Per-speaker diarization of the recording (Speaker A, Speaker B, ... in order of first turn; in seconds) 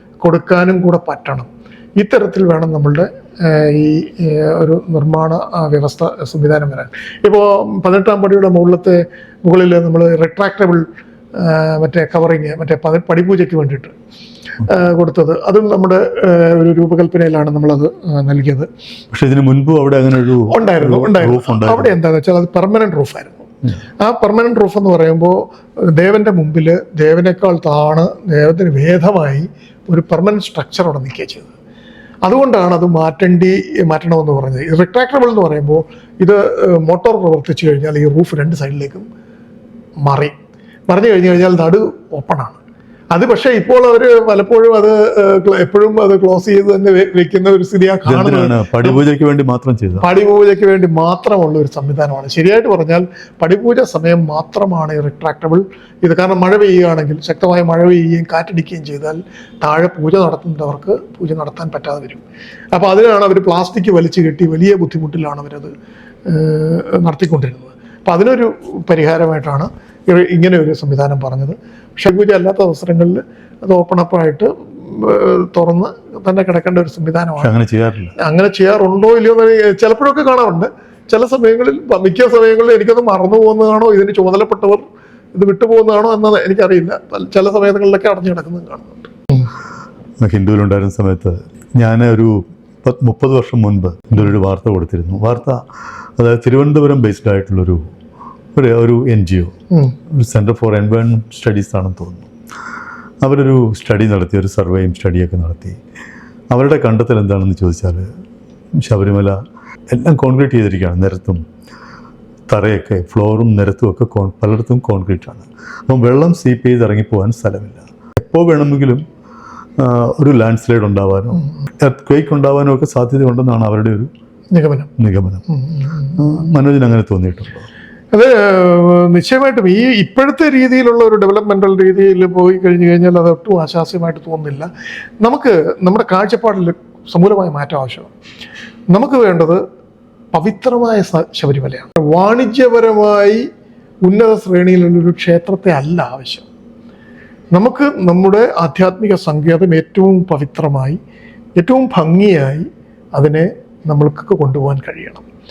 Speaker A: 0.2-13.9, 14.6-18.7, 20.5-23.5, 24.0-31.5, 32.2-39.0, 40.0-40.3, 40.9-42.6, 43.1-49.0, 50.0-62.2, 62.7-65.7, 66.3-77.5, 78.2-84.8, 85.3-89.5, 124.5-124.9, 125.5-125.8, 128.1-134.7, 135.2-138.1, 138.9-139.6, 140.3-143.4, 144.0-146.5, 147.5-151.0, 151.6-155.2
Speaker B: 19.1-22.0, 48.0-50.1, 77.4-78.1, 90.2-95.6, 96.2-97.8, 98.5-99.5, 100.1-102.3, 103.2-105.8, 106.5-108.1, 108.8-109.4, 109.9-111.4, 112.5-119.0, 119.8-124.1, 125.0-125.4, 126.1-127.7